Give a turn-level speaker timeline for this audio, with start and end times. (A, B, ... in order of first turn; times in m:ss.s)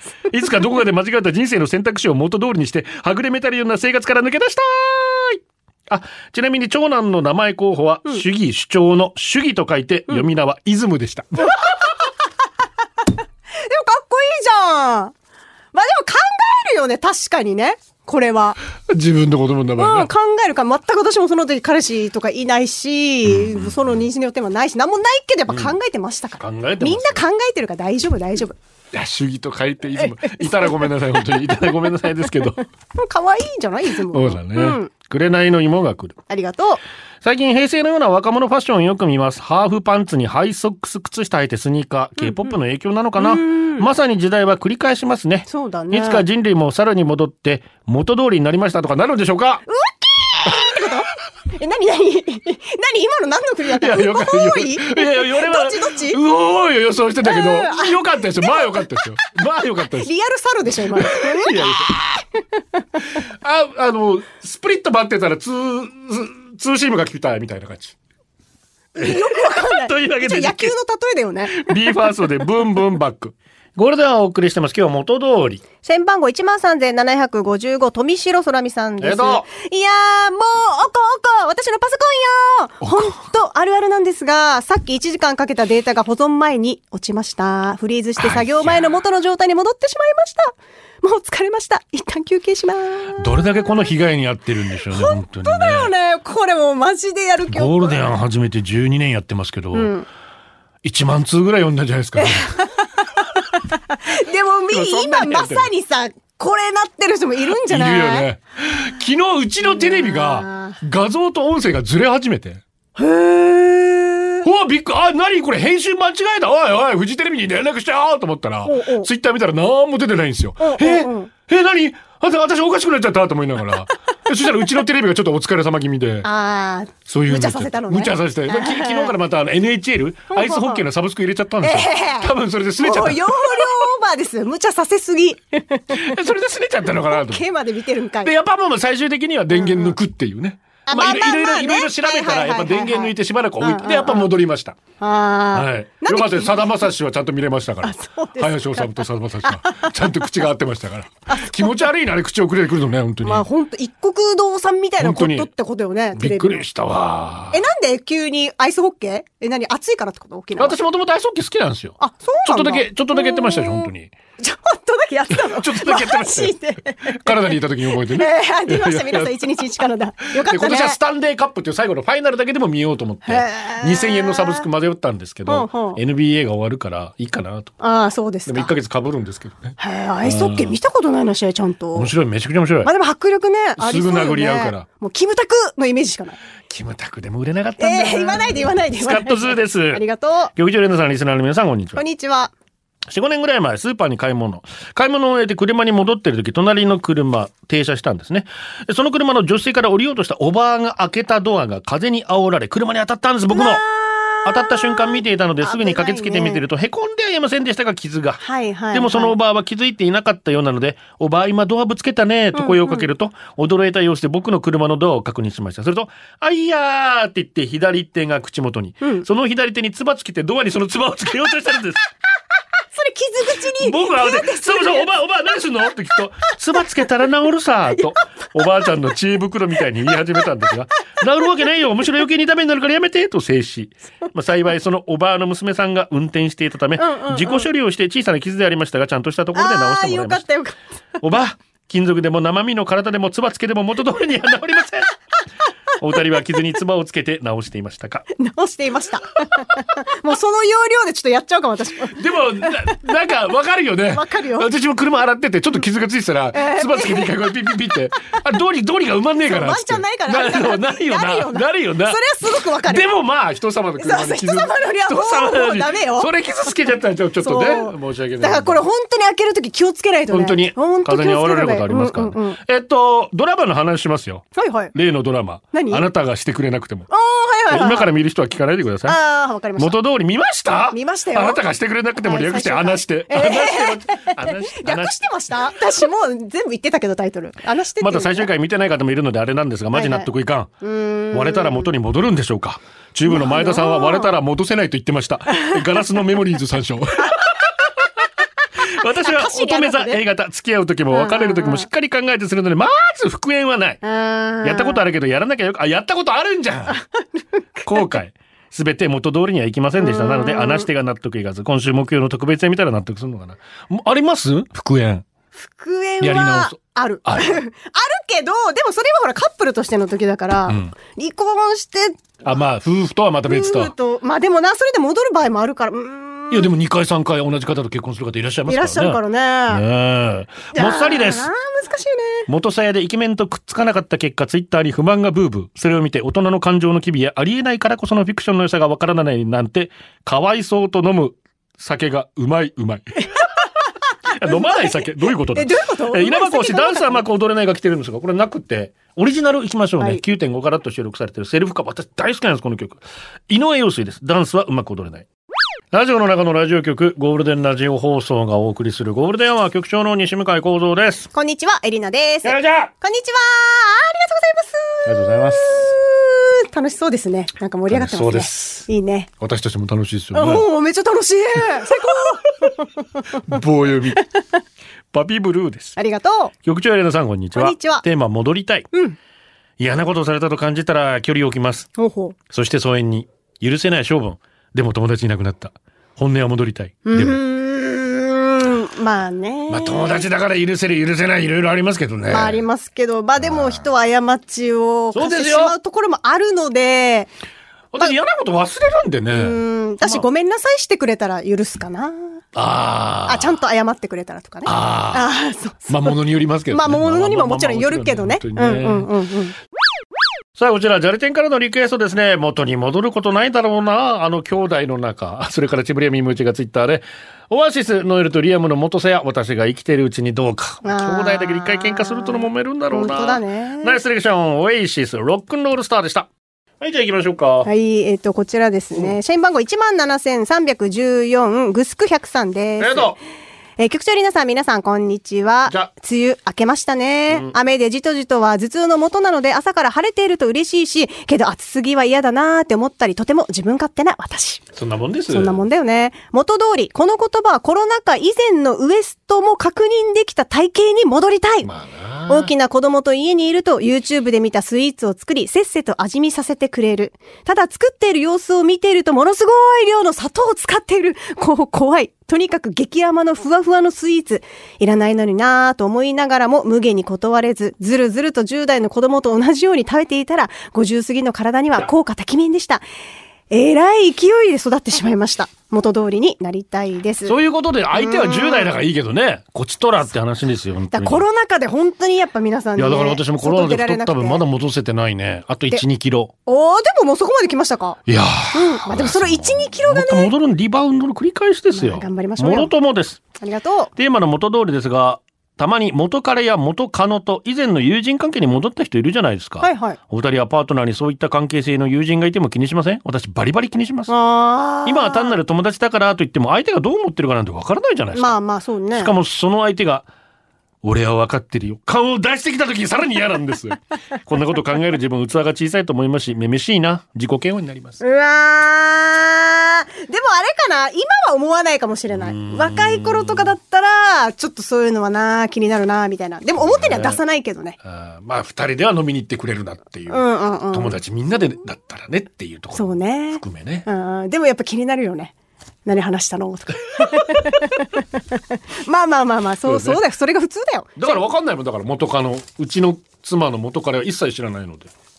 0:00.3-0:11.5 A
0:13.5-0:15.1 B
0:15.7-0:18.6 B
0:18.9-0:20.1 A
0:19.8-0:28.6 B
0:23.2-0:23.9 A
0:25.5-0:25.7 A
0:26.4-0:27.2 A
0:28.9-0:32.6 A
0:30.2-0:30.9 B
0:32.9-0:34.9 B
0:34.1-0:36.2 A
0:36.3-0:36.8 B
0:37.2-0:49.6 A
0:43.2-0:43.9 B
0:45.5-0:46.2 B
0:49.7-0:56.2 B
0:50.4-0:50.8 A
0:53.8-1:00.1 A
0:57.2-0:58.8 B
0:59.9-1:01.9 B
1:00.9-1:02.1 A
1:03.2-1:08.0 A
1:08.9-1:11.9 B
1:09.0-1:10.7 A
1:11.5-1:15.6 A
1:15.8-1:33.4 B
1:19.0-1:19.4 A
1:22.8-1:23.1 A
1:28.2-1:28.8 A
1:33.2-1:35.9 A
1:34.9-1:38.0 B
1:37.5-1:39.9 A
1:39.7-1:40.0 B
1:40.8-1:42.6 A
1:42.2-1:48.3 B
1:44.7-1:45.7 A
1:47.4-1:52.6 A
1:49.6-1:50.8 B
1:53.0-1:54.4 B
1:54.4-2:06.3 A
1:58.6-1:59.1 B
2:00.6-2:01.3 B
2:06.2-2:09.1 B
2:07.1-2:13.8 A
2:10.3-2:10.8 B
2:11.6-2:16.1 B
2:15.9-2:17.4 A
2:17.1-2:18.3 B
2:18.2-2:24.8 A
2:19.5-2:19.9 B
2:20.8-2:24.3 B
2:25.0-2:26.7 B
2:25.5-2:33.4 A
2:27.8-2:29.9 B
2:31.3-2:31.8 B
2:33.2-2:36.6 B
2:35.0-2:35.5 A
2:36.1-2:37.6 A
2:37.5-2:40.8 B
2:40.6-2:44.1 A
2:42.0-2:51.0 B
2:45.3-2:49.4 A
2:50.4-2:57.7 A
2:53.2-2:54.7 B
2:55.4-2:56.0 B
2:57.8-2:58.7 B
2:58.4-3:00.7 A
2:59.8-3:02.1 B
3:01.9-3:02.9 A
3:02.8-3:06.4 B
3:03.8-3:04.8 A
3:06.7-3:10.0 A
3:07.8-3:10.5 B
3:10.5-3:12.0 A
3:12.0-3:12.5 B
3:13.1-3:23.8 A
3:23.5-3:26.6 B
3:24.4-3:42.0 A
3:28.4-3:29.4 B
3:32.5-3:33.1 B
3:42.9-3:45.1 B
3:43.8-4:00.4 A
3:57.0-3:57.7 B
3:59.5-4:00.8 B
4:01.2-4:05.1 A
4:06.0-4:08.3 A
4:08.4-4:12.2 B
4:12.1-4:28.8 A
4:14.1-4:14.7 B
4:16.5-4:17.3 B
4:19.5-4:23.1 B
4:24.0-4:26.3 B
4:27.4-4:32.6 B
4:30.3-4:37.1 A
4:34.5-4:34.9 B
4:35.7-4:36.0 B
4:37.1-4:38.1 B
4:37.7-4:39.2 A
4:39.0-4:40.0 B
4:39.8-4:45.3 A
4:40.9-4:41.6 B
4:42.2-4:48.5 B
4:48.0-4:50.7 A
4:49.9-4:50.3 B
4:50.8-4:51.9 B
4:51.3-4:57.7 A
4:53.3-4:54.3 B
4:57.2-4:57.5 B
4:58.8-5:04.0 A
4:59.2-5:00.2 B
5:01.1-5:01.9 B
5:04.0-5:05.0 B
5:04.6-5:07.0 A
5:07.8-5:08.1 B
5:07.8-5:15.2 A
5:10.0-5:10.9 B
5:15.5-5:22.3 B
5:16.2-5:17.6 A
5:20.7-5:20.9 A
5:22.4-5:23.9 A
5:23.5-5:26.7 B
5:26.5-5:31.5 A
5:28.7-5:29.8 B
5:30.7-5:32.5 B
5:32.5-5:43.3 A
5:44.2-5:55.2 A
5:44.4-5:47.2 B
5:55.9-6:01.3 A
6:01.3-6:09.3 B
6:02.4-6:02.9 A
6:05.0-6:05.9 A
6:07.9-6:08.9 A
6:09.4-6:10.7 A
6:10.3-6:13.6 B
6:13.4-6:14.2 A
6:14.2-6:14.4 B
6:15.1-6:16.0 A
6:16.0-6:16.5 B
6:16.6-6:18.9 A
6:17.5-6:18.0 B
6:19.8-6:21.9 A
6:22.0-6:22.4 B
6:22.5-6:27.4 A
6:27.0-6:30.2 B
6:29.7-6:32.6 A
6:32.3-6:37.3 B
6:33.4-6:33.8 A
6:35.1-6:35.7 A
6:37.9-6:40.2 A
6:39.3-6:42.4 B
6:42.5-6:43.6 A
6:43.2-6:46.2 B
6:44.6-6:45.3 A
6:45.9-6:49.1 A
6:46.7-6:49.5 B
6:50.6-7:06.3 A
7:00.8-7:04.0 B
7:06.8-7:07.7 A
7:07.6-7:13.1 B
7:12.8-7:13.2 A
7:13.8-7:24.6 B
7:17.3-7:17.5 A
7:24.7-7:25.6 A
7:25.3-7:31.7 B
7:31.6-7:32.5 A
7:32.3-7:52.8 B
7:53.5-7:57.4 B
7:57.2-8:01.2 A
7:57.9-7:58.7 B
8:00.9-8:04.4 B
8:02.8-8:06.3 A
8:06.4-8:08.0 B
8:08.1-8:13.2 A
8:08.5-8:10.3 B
8:11.7-8:12.7 B
8:13.4-8:13.9 B
8:14.0-8:24.1 A
8:19.6-8:20.0 B
8:24.1-8:25.4 B
8:24.8-8:28.4 A
8:28.1-8:29.1 B
8:28.9-8:30.1 A
8:30.8-8:38.0 A
8:38.0-8:47.8 B
8:42.1-8:43.5 A
8:46.6-8:47.2 A
8:47.8-8:53.9 A
8:50.1-8:51.0 B
8:52.7-8:55.3 B
8:55.8-9:01.2 B
8:57.0-8:57.6 A
8:59.6-9:00.0 A
9:01.0-9:04.9 A